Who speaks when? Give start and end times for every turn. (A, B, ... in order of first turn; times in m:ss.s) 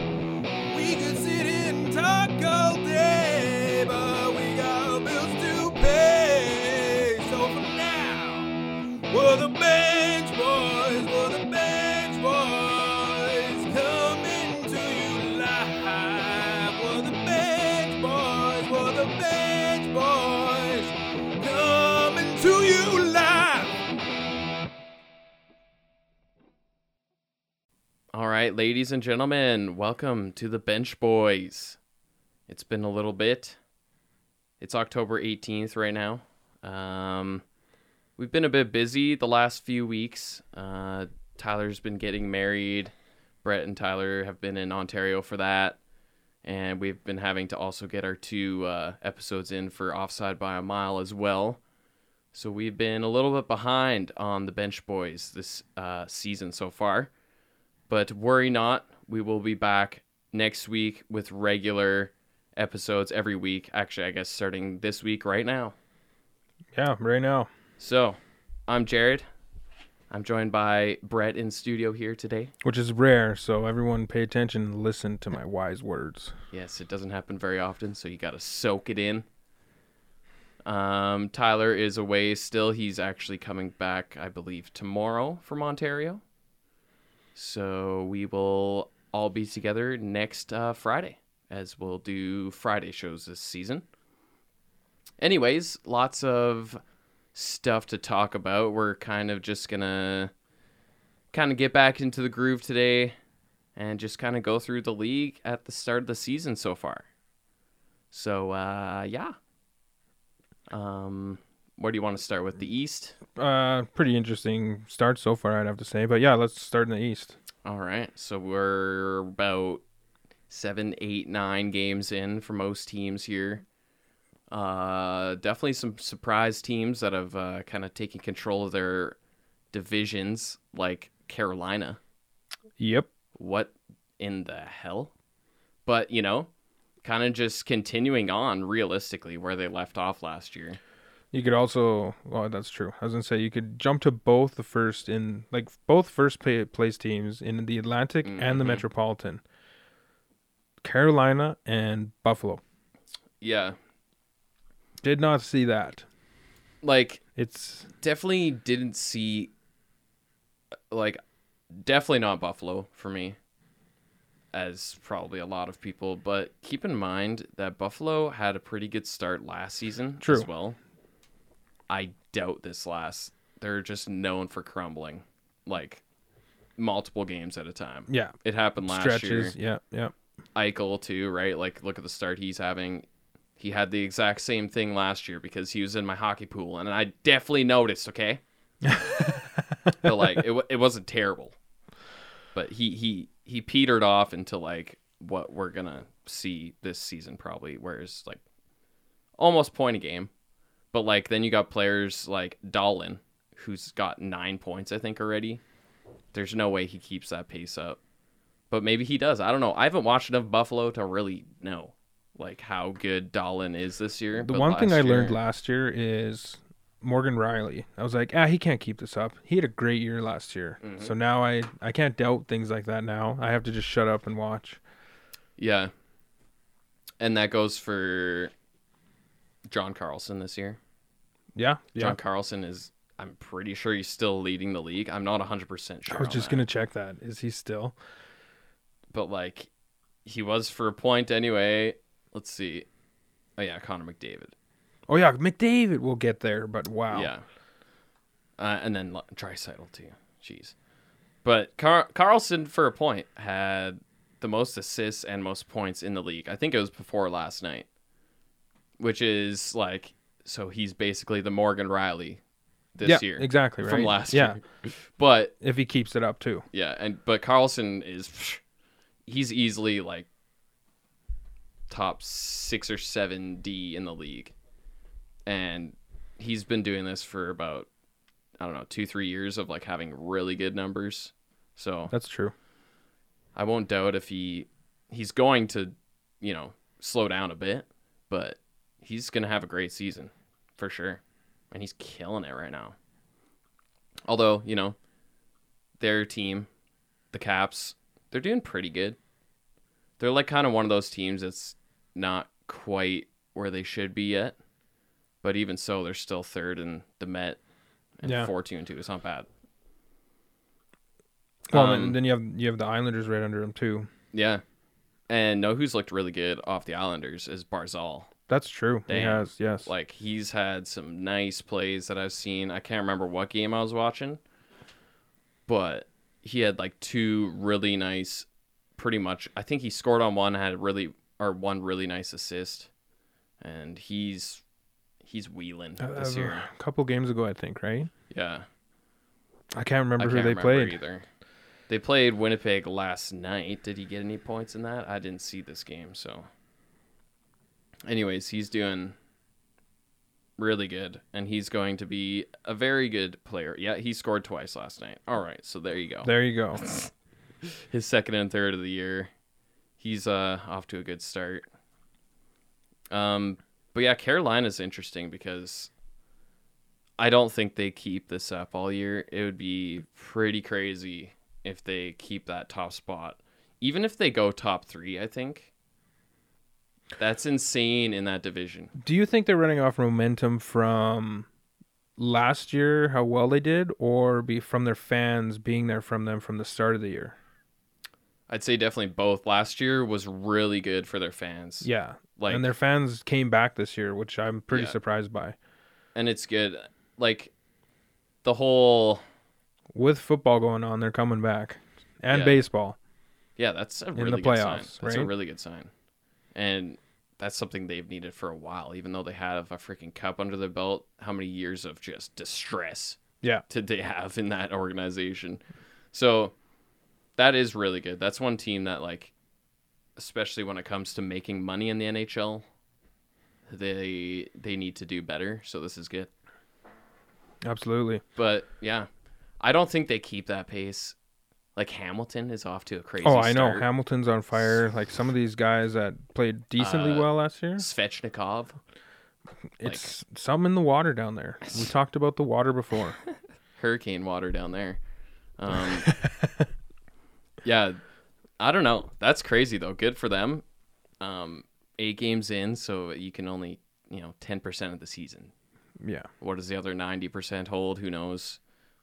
0:00.6-0:08.5 A
0:09.1-0:23.8 A
0:28.1-0:31.8 B
0:32.5-0:33.6 B
0:34.6-0:37.4 B
0:38.2-0:45.8 B
0:46.4-0:51.6 B
0:52.3-0:57.1 B
0:57.9-1:05.7 B
1:06.7-1:07.5 C
1:07.8-1:09.3 B
1:10.1-1:12.5 B
1:12.6-1:16.3 C
1:16.5-1:19.2 B
1:20.6-1:26.2 B
1:27.3-1:33.8 B
1:35.2-1:36.8 B
1:37.3-1:40.3 B
1:41.3-1:43.1 B
1:43.8-1:47.0 B
1:48.1-1:49.4 B
1:50.7-1:53.2 B
1:53.4-1:57.4 C
1:57.6-1:59.8 B
2:00.5-2:03.6 B
2:04.5-2:09.2 B
2:09.7-2:12.0 B
2:12.8-2:13.1 C
2:13.4-2:15.1 B
2:15.8-2:16.5 B
2:17.0-2:20.8 B
2:21.3-2:29.4 C
2:28.2-2:28.8 B
2:30.8-2:32.6 C
2:33.4-2:33.8 B
2:35.0-2:36.0 C
2:36.8-2:37.2 B
2:37.4-2:37.9 C
2:38.0-2:39.5 B
2:40.9-2:41.2 B
2:41.7-2:43.4 B
2:44.5-2:50.8 B
2:50.2-2:50.5 C
2:51.9-2:56.0 B
2:56.8-2:59.5 B
2:58.1-3:00.1 C
3:00.5-3:03.1 B
3:03.6-3:08.4 B
3:08.8-3:10.2 C
3:10.0-3:11.5 B
3:12.5-3:18.4 B
3:19.4-3:20.3 B
3:20.9-3:25.6 B
3:26.3-3:28.0 B
3:28.7-3:35.4 B
3:34.3-3:44.8 C
3:40.8-3:41.1 B
3:45.6-3:45.9 B
3:47.2-3:48.5 B
3:49.7-3:50.8 B
3:51.5-3:52.2 C
3:52.0-3:56.6 B
3:56.1-3:58.0 C
3:59.1-3:59.7 B
4:00.2-4:02.9 B
4:03.6-4:04.5 B
4:05.1-4:07.3 C
4:07.1-4:07.4 B
4:08.6-4:10.7 B
4:11.4-4:17.8 B
4:19.0-4:22.4 B
4:22.9-4:25.5 B
4:23.0-4:24.6 C
4:25.6-4:26.6 C
4:26.7-4:28.6 B
4:29.2-4:30.3 B
4:31.9-4:34.5 B
4:35.4-4:37.9 B
4:38.6-4:42.1 B
4:42.1-4:42.5 C
4:43.6-4:52.9 B
4:54.3-4:55.0 B
4:56.0-4:56.7 B
4:57.3-4:59.2 B
5:00.2-5:04.6 B
5:05.4-5:07.6 B
5:08.2-5:09.5 B
5:08.2-5:08.5 C
5:11.7-5:14.1 C
5:11.7-5:12.2 B
5:14.3-5:14.6 B
5:15.3-5:18.3 B
5:18.5-5:19.9 C
5:19.1-5:24.4 B
5:25.7-5:28.4 B
5:29.0-5:32.9 B
5:33.6-5:34.6 B
5:35.2-5:36.7 B
5:36.0-5:38.1 C
5:38.3-5:38.6 B
5:39.7-5:41.0 C
5:40.2-5:41.2 B
5:41.9-5:46.5 B
5:48.0-5:49.1 B
5:50.6-5:57.1 B
5:56.2-5:56.8 C
5:57.6-5:59.3 B
6:00.0-6:01.6 B
6:03.1-6:05.9 B
6:07.2-6:15.7 B
6:17.2-6:18.9 B
6:18.9-6:21.5 C
6:22.2-6:27.4 C
6:28.5-6:32.7 B
6:31.8-6:35.6 C
6:34.7-6:35.0 B
6:36.1-6:37.5 B
6:38.4-6:39.2 B
6:39.9-6:43.0 C
6:42.3-6:42.6 B
6:43.6-6:45.9 B
6:44.1-6:45.3 C
6:46.5-6:55.6 B
6:56.1-6:56.5 B
6:57.4-6:59.3 B
7:00.2-7:02.6 B
7:03.7-7:06.3 B
7:07.6-7:08.2 C
7:08.4-7:09.1 B
7:09.6-7:11.1 B
7:11.8-7:13.9 B
7:13.2-7:17.8 C
7:16.8-7:18.8 B
7:19.8-7:23.2 C
7:19.8-7:20.1 B
7:23.8-7:25.0 B
7:25.6-7:26.1 B
7:26.0-7:26.5 C
7:27.6-7:28.0 B
7:28.6-7:30.6 B
7:31.2-7:35.5 B
7:36.0-7:36.3 C
7:36.4-7:38.6 B